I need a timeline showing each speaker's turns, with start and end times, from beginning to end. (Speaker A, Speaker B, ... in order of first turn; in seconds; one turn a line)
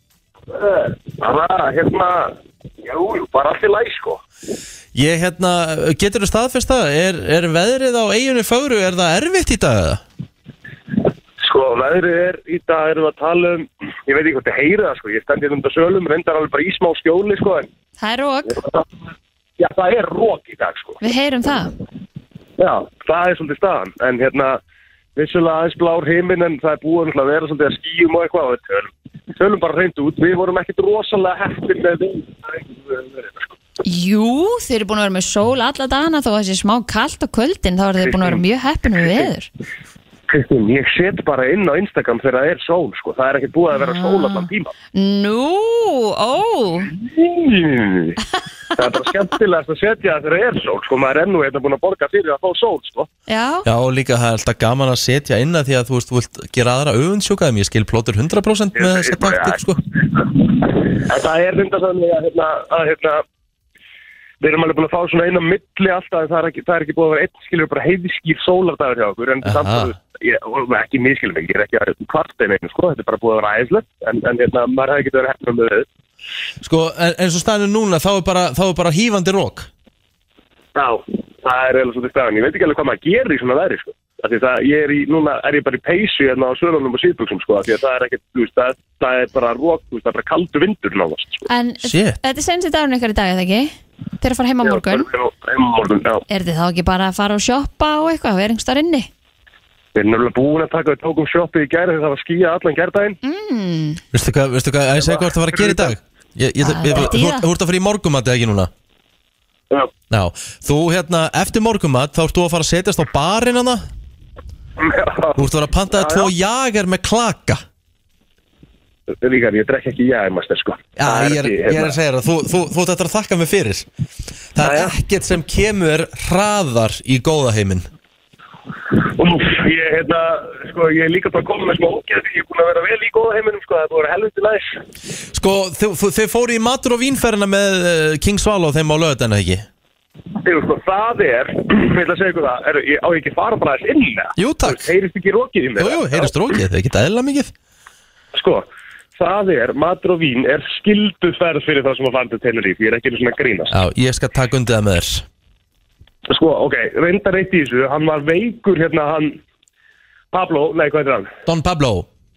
Speaker A: 0.5-4.2
Speaker B: 4.9-10.0
Speaker A: 11.4-17.7
Speaker C: 18.0-18.6
Speaker A: 18.5-18.8
Speaker A: 19.6-21.0
Speaker C: 21.0-21.7
Speaker A: 22.6-24.6
Speaker A: 25.1-33.5
Speaker C: 33.8-39.5
Speaker A: 38.0-38.4
Speaker A: 39.0-39.3
Speaker A: 40.3-44.7
Speaker C: 43.7-46.9
Speaker A: 46.9-48.2
Speaker A: 48.7-53.1
Speaker C: 53.3-53.6
Speaker B: 53.6-59.8
Speaker A: 58.8-63.2
Speaker A: 64.4-75.9
Speaker B: 69.4-69.9
Speaker B: 76.6-79.7
Speaker A: 80.7-91.5
Speaker C: 91.5-95.1
Speaker B: 91.8-92.2
Speaker A: 94.6-96.2
Speaker C: 96.3-99.1
Speaker A: 99.9-103.2
Speaker C: 103.2-104.0
Speaker B: 104.1-108.7
Speaker A: 105.0-106.0
Speaker C: 106.6-107.5
Speaker B: 110.1-113.8
Speaker A: 114.8-116.3
Speaker B: 115.3-117.6
Speaker A: 119.1-121.9
Speaker B: 121.0-123.9
Speaker B: 124.5-127.8
Speaker A: 124.6-124.9
Speaker A: 129.0-134.8
Speaker B: 135.3-139.7
Speaker A: 140.4-146.3
Speaker B: 144.3-144.9
Speaker B: 145.8-147.5
Speaker A: 148.3-153.7
Speaker B: 153.7-155.2
Speaker A: 156.3-159.4
Speaker A: 160.3-161.3
Speaker B: 161.4-162.1